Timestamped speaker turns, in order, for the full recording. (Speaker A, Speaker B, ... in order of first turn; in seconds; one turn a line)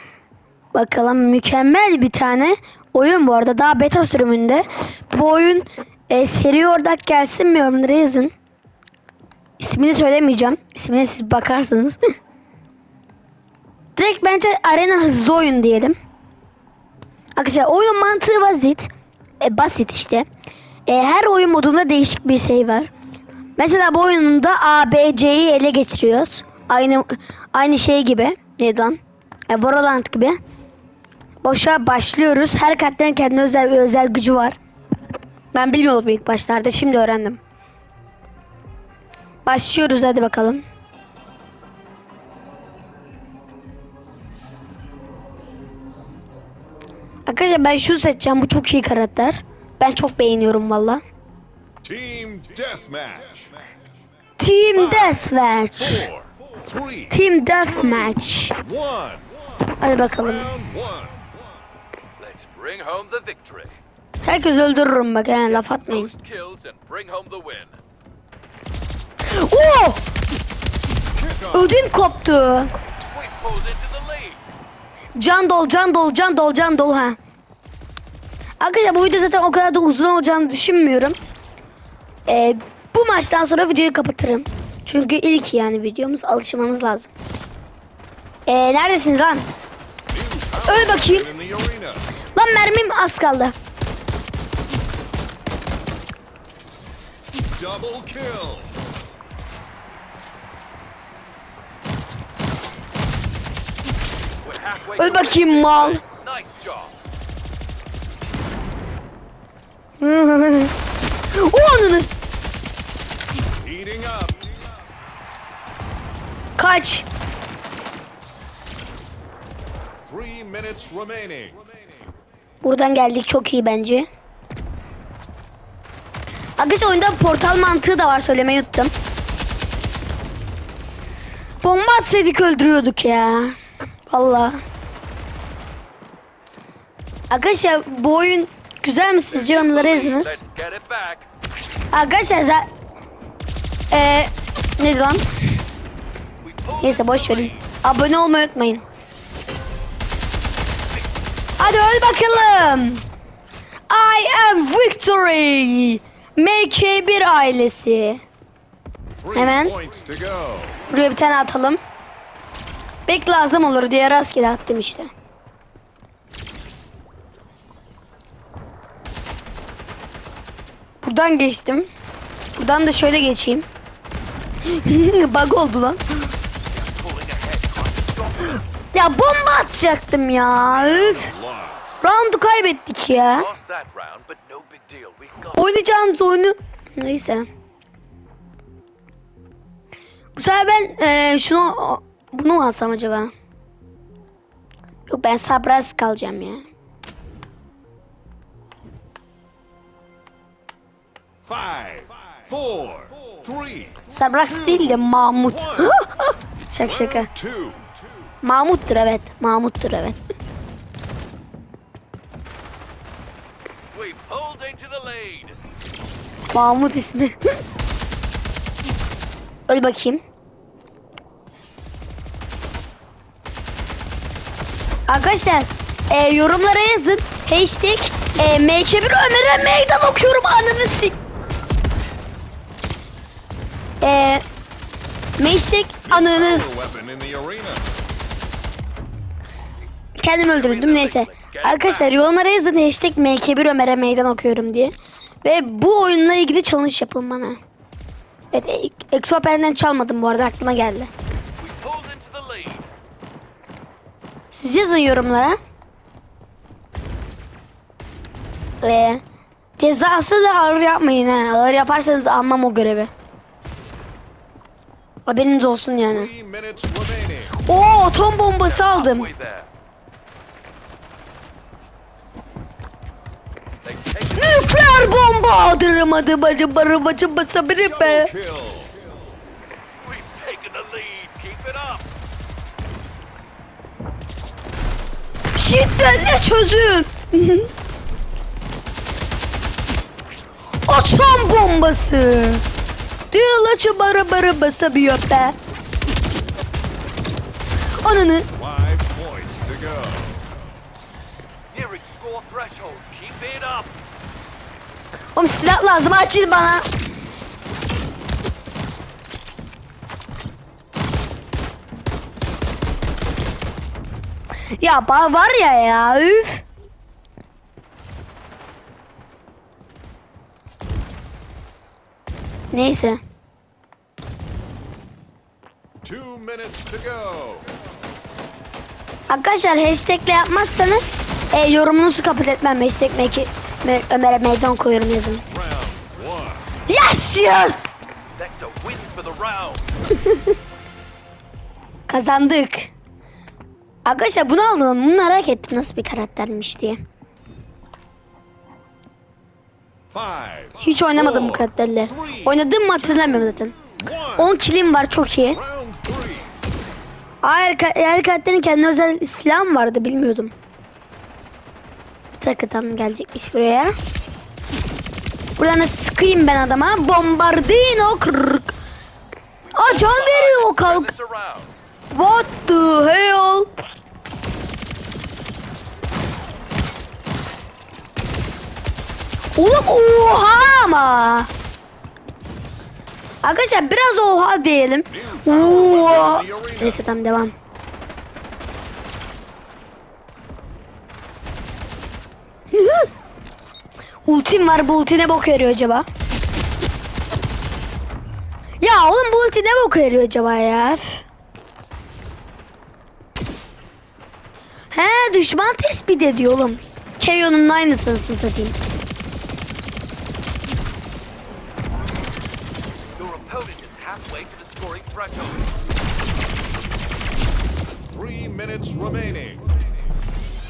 Speaker A: 0.7-8.3
Speaker A: 9.6-12.0
Speaker A: 13.9-15.9
Speaker A: 17.4-18.9
Speaker A: 19.4-20.2
Speaker A: 20.9-22.9
Speaker A: 23.6-30.4
Speaker A: 31.4-34.6
Speaker A: 35.5-37.4
Speaker A: 39.4-40.6
Speaker A: 47.3-51.0
Speaker B: 51.8-53.5
Speaker A: 54.4-56.1
Speaker B: 54.7-59.4
Speaker A: 57.1-58.6
Speaker A: 59.8-60.5
Speaker B: 60.0-61.3
Speaker C: 62.2-63.8
Speaker A: 64.2-66.1
Speaker C: 65.4-67.8
Speaker A: 69.3-70.0
Speaker B: 71.1-71.8
Speaker A: 71.5-72.8
Speaker C: 73.0-74.4
Speaker A: 75.2-77.2
Speaker A: 78.6-81.2
Speaker A: 82.2-87.1
Speaker A: 88.5-89.5
Speaker B: 90.1-92.1
Speaker A: 90.7-91.3
Speaker A: 92.3-93.5
Speaker B: 97.5-98.7
Speaker C: 104.4-106.9
Speaker A: 105.0-106.0
Speaker A: 110.0-110.7
Speaker A: 111.3-112.1
Speaker B: 113.6-114.5
Speaker A: 116.6-117.0
Speaker B: 120.0-121.7
Speaker A: 122.6-124.1
Speaker A: 126.6-128.9
Speaker A: 131.6-133.6
Speaker A: 134.1-134.6
Speaker A: 137.3-140.4
Speaker C: 139.3-141.3
Speaker A: 141.9-142.7
Speaker A: 143.9-145.2
Speaker C: 146.4-147.7
Speaker A: 146.8-148.8
Speaker C: 150.9-152.8
Speaker A: 151.6-153.0
Speaker A: 153.9-158.2
Speaker B: 159.2-160.9
Speaker A: 159.3-159.8
Speaker A: 160.9-161.8
Speaker A: 163.1-165.1
Speaker A: 171.0-171.9
Speaker A: 172.6-173.7
Speaker A: 174.6-176.0
Speaker C: 176.7-178.7
Speaker A: 178.9-181.3
Speaker B: 180.6-182.0
Speaker A: 182.0-183.5
Speaker C: 183.3-185.7
Speaker A: 185.6-187.5
Speaker A: 190.3-193.3
Speaker A: 195.1-196.6
Speaker B: 201.4-206.0
Speaker A: 204.1-207.3
Speaker B: 206.8-207.9
Speaker A: 208.4-210.2
Speaker C: 213.9-215.6
Speaker A: 216.5-217.4
Speaker A: 219.7-220.2
Speaker A: 225.1-231.2
Speaker A: 234.0-234.4
Speaker A: 235.4-236.7
Speaker B: 236.1-237.9
Speaker A: 240.2-247.6
Speaker C: 240.4-242.2
Speaker A: 248.5-251.1
Speaker C: 251.6-252.9
Speaker A: 254.5-255.6
Speaker A: 258.8-259.2
Speaker A: 259.8-263.1
Speaker A: 265.2-266.3
Speaker B: 266.1-267.6
Speaker A: 267.6-269.3
Speaker C: 268.6-269.7
Speaker C: 273.8-275.1
Speaker A: 274.4-278.3
Speaker B: 277.8-279.0
Speaker C: 280.0-282.0
Speaker A: 285.5-287.7
Speaker A: 290.8-292.6
Speaker A: 293.3-295.6
Speaker A: 298.0-298.5
Speaker B: 298.5-300.4
Speaker C: 301.7-303.9
Speaker A: 305.3-306.9
Speaker A: 314.8-316.6
Speaker A: 322.7-323.2
Speaker B: 326.0-327.7
Speaker A: 329.3-335.4
Speaker B: 335.5-336.7
Speaker A: 336.9-337.9
Speaker C: 338.4-339.9
Speaker A: 342.1-342.9
Speaker A: 344.0-347.0
Speaker B: 350.1-354.5
Speaker A: 350.8-353.7
Speaker A: 354.4-355.6
Speaker B: 355.5-356.5
Speaker A: 357.4-360.5
Speaker A: 362.3-363.9
Speaker A: 365.6-368.7
Speaker C: 369.6-371.7
Speaker A: 369.7-371.1
Speaker A: 372.1-373.7
Speaker A: 379.6-381.5
Speaker A: 383.4-387.5
Speaker B: 385.1-387.0
Speaker A: 392.7-393.1
Speaker A: 394.2-396.1
Speaker A: 398.8-401.2
Speaker A: 404.9-408.8
Speaker C: 413.1-415.7
Speaker B: 418.1-419.6